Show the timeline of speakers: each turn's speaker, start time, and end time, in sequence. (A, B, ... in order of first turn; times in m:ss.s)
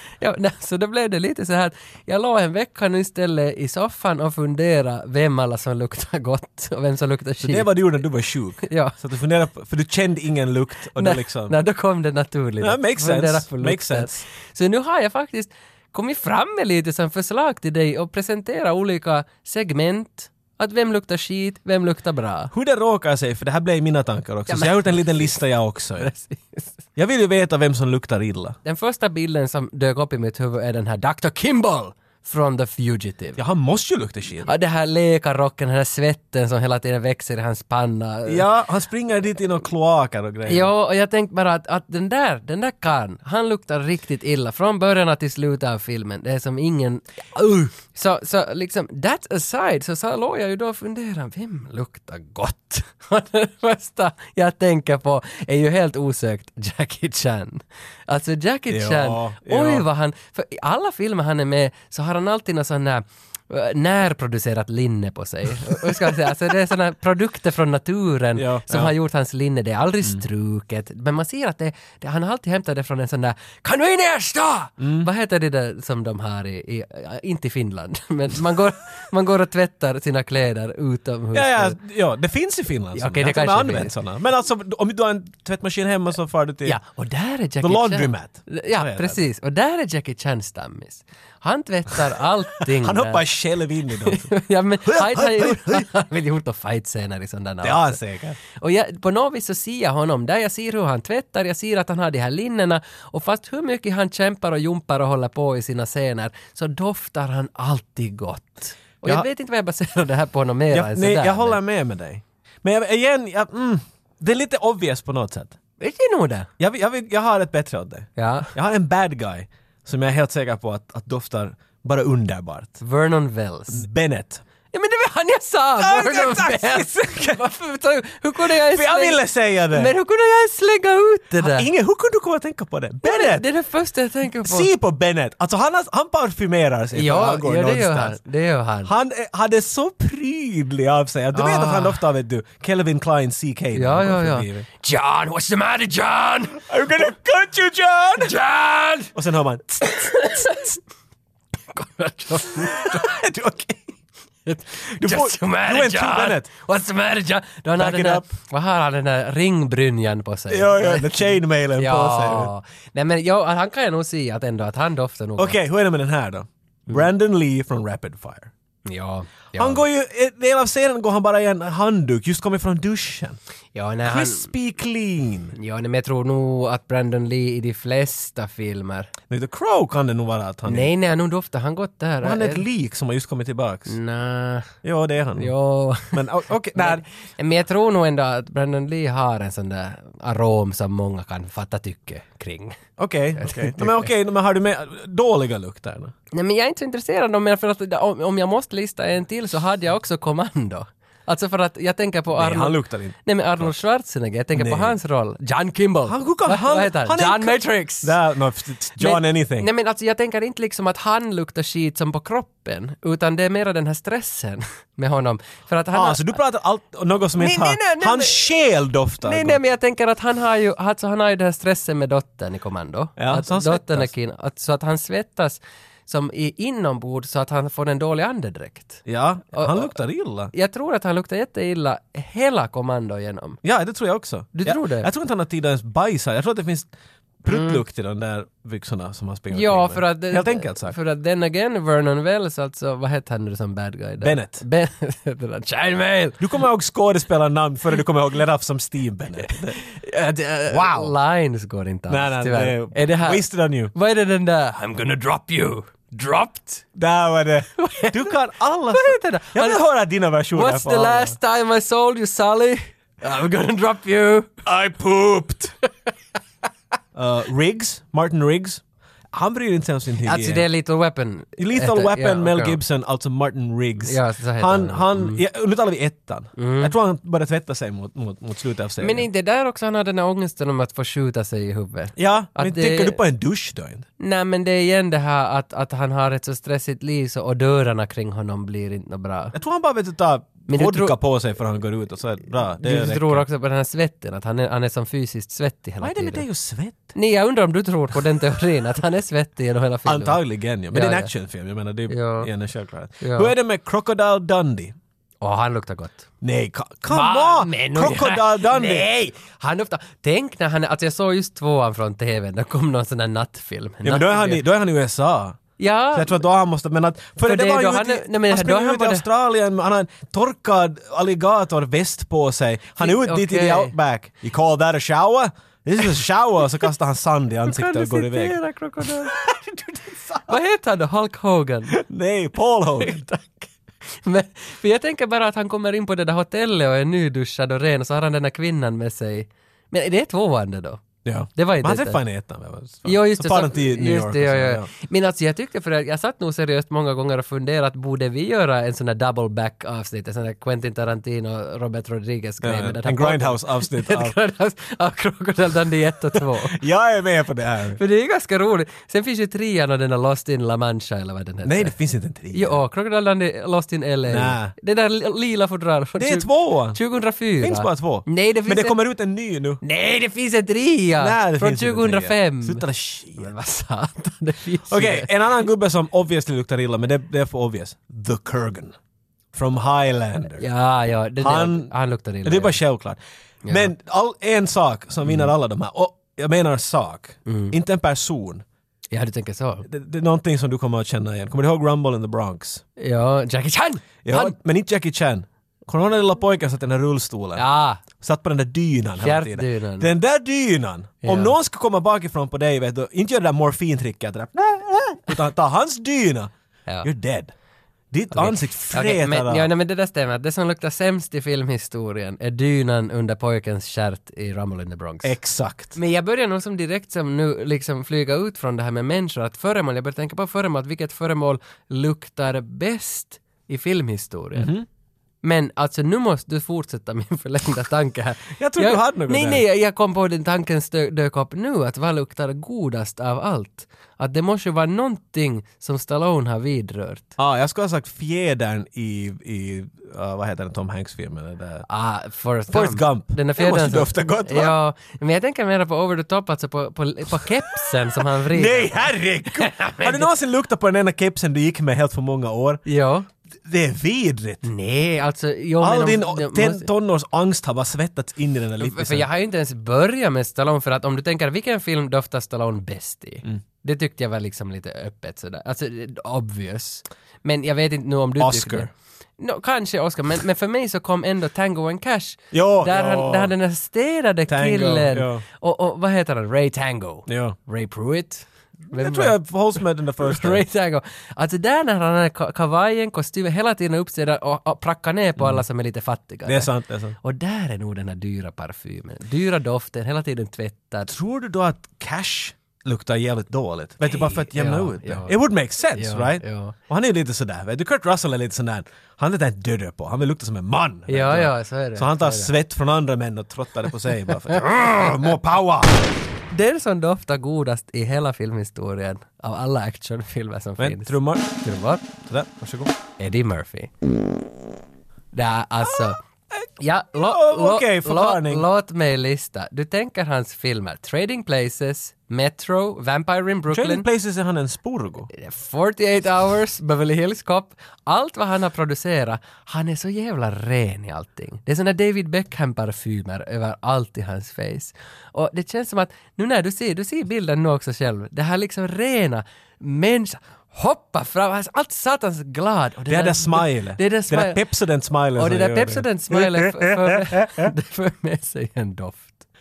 0:00.2-0:07.7 A
0:07.4-0:11.6 B
0:08.6-0:09.0 A
0:11.0-0:22.5 A
0:12.6-0:14.2 B
0:22.5-0:26.1 B
0:24.5-0:25.3 A
0:26.0-0:26.8 A
0:27.0-0:28.6 B
0:28.6-0:33.4 A
0:33.4-0:34.5 B
0:34.4-0:38.4 A
0:38.3-0:40.7 B
0:40.5-1:21.8 A
0:58.7-0:59.9 B
1:05.6-1:06.1 B
1:08.4-1:08.9 B
1:14.8-1:15.1 B
1:21.3-1:26.8 B
1:23.0-1:23.9 A
1:26.6-1:33.2 A
1:27.6-1:29.2 B
1:32.7-1:35.9 B
1:34.0-1:51.6 A
1:37.6-1:38.4 B
1:50.7-1:55.6 B
1:55.8-1:56.5 A
1:56.6-2:02.8 B
1:58.2-1:58.5 A
2:02.8-2:03.9 A
2:03.7-2:04.4 B
2:04.7-2:11.7 A
2:05.8-2:07.4 B
2:08.4-2:09.9 B
2:11.4-2:13.5 B
2:13.0-2:14.7 A
2:14.4-2:18.2 B
2:17.0-2:18.9 A
2:18.8-2:24.7 B
2:21.3-2:22.0 A
2:23.7-2:26.6 A
2:26.6-2:28.4 B
2:28.2-2:29.2 A
2:29.1-2:30.3 B
2:29.8-2:30.8 A
2:31.7-2:33.1 A
2:32.6-2:33.9 B
2:34.5-2:45.6 A
2:34.9-2:36.5 B
2:37.8-2:38.3 B
2:40.5-2:42.5 B
2:45.4-2:48.5 B
2:48.9-2:49.8 A
2:49.6-2:53.4 B
2:53.7-2:54.5 A
2:54.0-2:55.6 B
2:55.6-2:59.1 A
2:59.3-3:00.9 B
3:00.7-3:02.6 A
3:02.2-3:04.0 B
3:03.9-3:04.7 A
3:04.8-3:07.0 B
3:05.4-3:06.2 A
3:06.8-3:12.8 A
3:13.0-3:16.1 B
3:13.4-3:14.1 A
3:16.3-3:28.1 A
3:22.4-3:23.8 B
3:24.5-3:25.0 B
3:26.1-3:29.7 B
3:29.0-3:36.4 A
3:35.9-3:39.6 B
3:37.4-3:38.4 A
3:39.2-3:50.0 A
3:43.2-3:44.1 B
3:49.1-3:50.5 B
3:50.5-3:53.6 A
3:53.6-3:56.9 B
3:54.5-3:55.1 A
3:57.4-4:01.0 B
3:57.5-3:57.8 A
3:59.5-4:06.4 A
4:04.2-4:04.6 B
4:06.4-4:09.8 B
4:09.5-4:16.8 A
4:10.7-4:11.1 B
4:12.1-4:13.9 B
4:17.0-4:21.4 B
4:17.8-4:18.4 A
4:18.9-4:19.8 A
4:20.5-4:24.6 A
4:24.6-4:25.7 B
4:27.2-4:30.7 B
4:30.2-4:32.8 A
4:31.6-4:39.3 B
4:34.0-4:35.4 A
4:36.6-4:37.0 A
4:39.0-4:43.2 A
4:42.2-4:44.0 B
4:44.2-4:49.6 A
4:49.5-4:53.4 B
4:50.7-4:51.2 A
4:52.8-4:56.4 A
4:56.0-4:57.1 B
4:57.1-5:00.4 A
5:00.1-5:05.0 B
5:00.9-5:01.3 A
5:02.1-5:02.5 A
5:03.2-5:03.5 A
5:05.4-5:06.3 A
5:06.4-5:09.1 B
5:07.1-5:14.6 A
5:14.0-5:15.6 B
5:15.8-5:16.4 A
5:16.1-5:29.3 B
5:17.4-5:19.3 A
5:23.0-5:24.0 A
5:27.7-5:32.0 A
5:30.2-5:30.6 B
5:31.9-5:33.2 B
5:33.0-5:41.0 A
5:41.2-5:44.9 B
5:41.6-5:42.2 A
5:43.0-5:56.8 A
5:52.6-5:54.4 B
5:56.4-5:58.0 B
5:58.0-6:02.0 A
6:01.6-6:02.8 B
6:02.5-6:09.0 A
6:04.3-6:04.8 B
6:06.2-6:07.0 B
6:07.6-6:09.8 B
6:09.8-6:12.8 A
6:11.2-6:13.5 B
6:13.4-6:15.3 A
6:14.9-6:19.0 B
6:19.5-6:20.7 B
6:20.6-6:22.8 A
6:21.4-6:21.9 B
6:22.4-6:28.6 B
6:23.6-6:23.9 A
6:27.5-6:27.8 A
6:29.1-6:29.9 A
6:29.9-6:32.8 B
6:33.0-6:34.6 A
6:34.2-6:46.5 B
6:37.6-6:38.0 A
6:39.2-6:40.1 A
6:41.2-6:41.6 A
6:47.0-6:47.5 B
6:48.1-6:49.7 B
6:48.3-6:55.4 A
6:55.2-6:56.0 B
6:55.9-7:04.7 A
7:04.6-7:04.9 B
7:05.4-7:17.3 A
7:08.6-7:09.6 B
7:17.4-7:21.9 B
7:21.9-7:30.3 A
7:22.7-7:24.8 B
7:28.5-7:32.8 B
7:32.9-7:33.3 A
7:33.6-7:34.6 B
7:34.6-7:36.9 A
7:35.8-7:39.3 B
7:38.8-7:59.4 A
7:48.4-7:48.9 B
7:52.5-7:53.5 B
7:54.5-7:55.4 B
7:57.3-7:57.6 B
7:58.9-8:00.6 B
8:00.2-8:06.7 A
8:05.4-8:05.6 B
8:06.5-8:07.2 B
8:07.2-8:11.1 A
8:11.1-8:26.1 B
8:14.0-8:15.4 A
8:16.0-8:16.8 A
8:21.1-8:22.5 A
8:26.5-8:32.0 A
8:30.8-8:31.6 B
8:32.2-8:32.9 B
8:33.2-8:33.9 A
8:35.3-8:36.2 A
8:35.8-8:38.6 B
8:36.8-8:44.1 A
8:43.7-8:45.3 B
8:45.3-9:04.6 A
9:03.1-9:07.7 B
9:05.4-9:09.4 A